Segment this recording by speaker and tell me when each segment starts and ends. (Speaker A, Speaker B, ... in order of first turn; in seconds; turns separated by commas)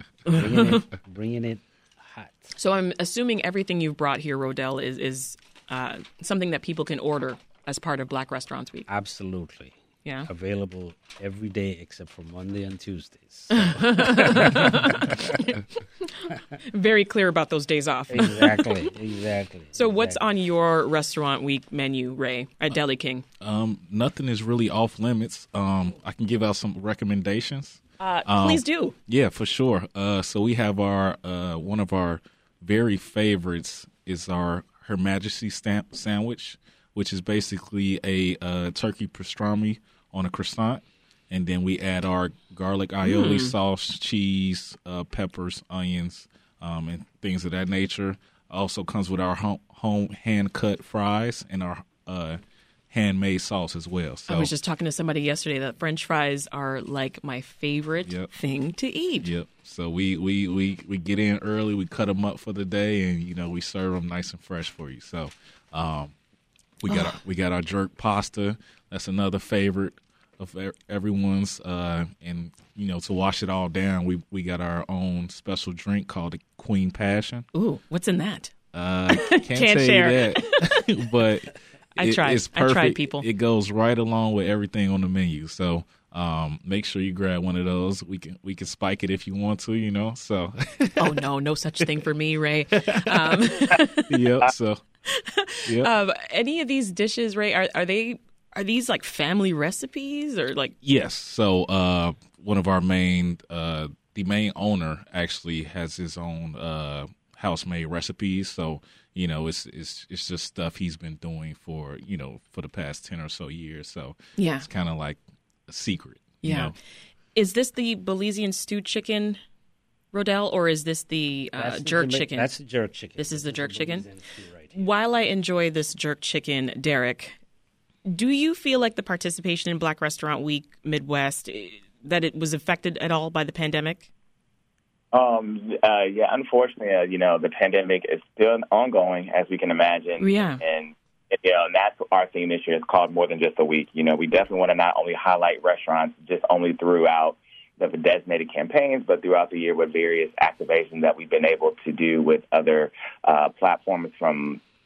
Speaker A: 0.3-2.5, Speaker B: 0.3-0.8, Speaker B: 2.6-8.9, Speaker A: 8.9-9.8, Speaker A: 10.3-15.4, Speaker B: 13.5-18.8, Speaker A: 18.1-20.2, Speaker B: 19.8-23.2, Speaker C: 23.4-54.5, Speaker B: 28.0-29.0, Speaker B: 43.0-43.5, Speaker B: 54.3-59.3, Speaker C: 58.0-58.3, Speaker C: 59.2-66.2, Speaker C: 66.8-77.5, Speaker B: 66.9-67.2, Speaker B: 77.5-78.5, Speaker C: 78.7-91.2, Speaker B: 79.1-80.5, Speaker B: 82.0-83.3, Speaker B: 91.0-94.3, Speaker C: 92.7-94.8, Speaker B: 95.1-100.8, Speaker C: 95.7-95.9, Speaker C: 100.8-116.8, Speaker B: 114.4-114.7, Speaker B: 116.4-116.7, Speaker B: 117.3-119.4, Speaker B: 120.1-122.5, Speaker A: 121.5-124.9, Speaker B: 123.2-124.1, Speaker B: 124.7-127.4, Speaker B: 128.1-134.1, Speaker D: 135.1-154.6, Speaker B: 140.2-140.6